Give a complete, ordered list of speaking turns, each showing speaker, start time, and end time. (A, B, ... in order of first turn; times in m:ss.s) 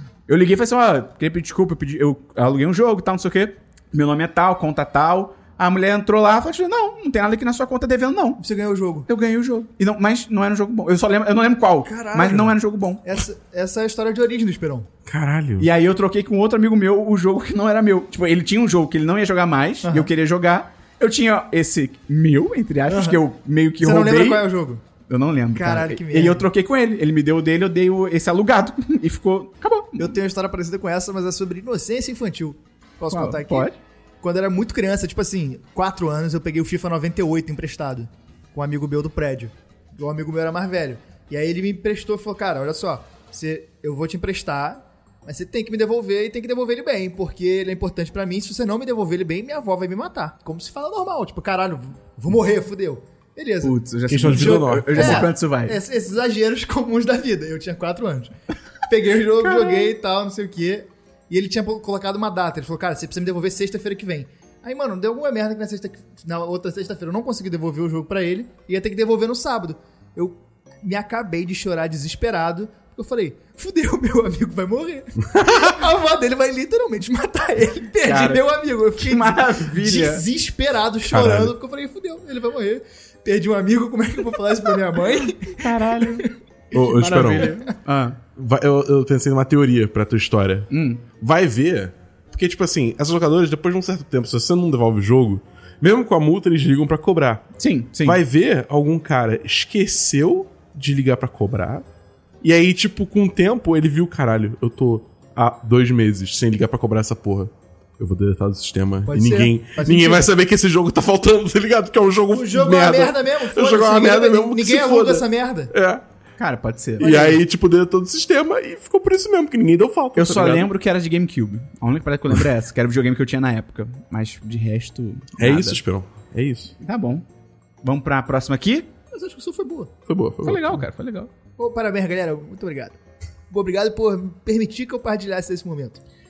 0:00.3-0:08.4 A
0:08.4-0:09.1 B
0:09.1-0:13.0 A
0:11.9-0:14.9 B
0:15.1-0:15.7 C
0:15.6-0:24.4 A
0:19.8-0:20.1 B
0:22.9-0:23.2 B
0:23.8-0:24.8 B
0:25.1-0:30.2 A
0:25.5-0:26.5 B
0:30.0-0:33.7 B
0:33.1-0:33.8 A
0:34.2-0:58.3 B
0:53.6-0:55.8 A
0:54.1-0:55.3 C
0:58.9-1:26.2 B
0:59.4-0:59.9 A
1:18.0-1:18.4 A
1:19.0-1:20.2 A
1:21.1-1:21.5 C
1:25.6-1:26.3 A
1:26.7-1:27.6 C
1:26.8-1:27.6 B
1:26.8-1:28.2 A
1:28.4-1:37.4 C
1:30.7-1:31.0 A
1:37.6-1:38.2 A
1:38.0-1:41.9 C
1:42.4-1:56.0 C
1:49.1-1:50.3 B
1:52.3-1:55.7 B
1:56.4-1:57.4 A
1:57.0-1:57.4 B
1:57.0-2:00.7 C
2:00.1-2:05.8 A
2:05.4-2:06.7 C
2:06.8-2:07.2 A
2:07.8-2:08.9 A
2:09.1-2:09.9 B
2:10.1-2:10.8 C
2:10.4-2:11.3 A
2:11.6-2:13.0 B
2:13.5-2:16.0 B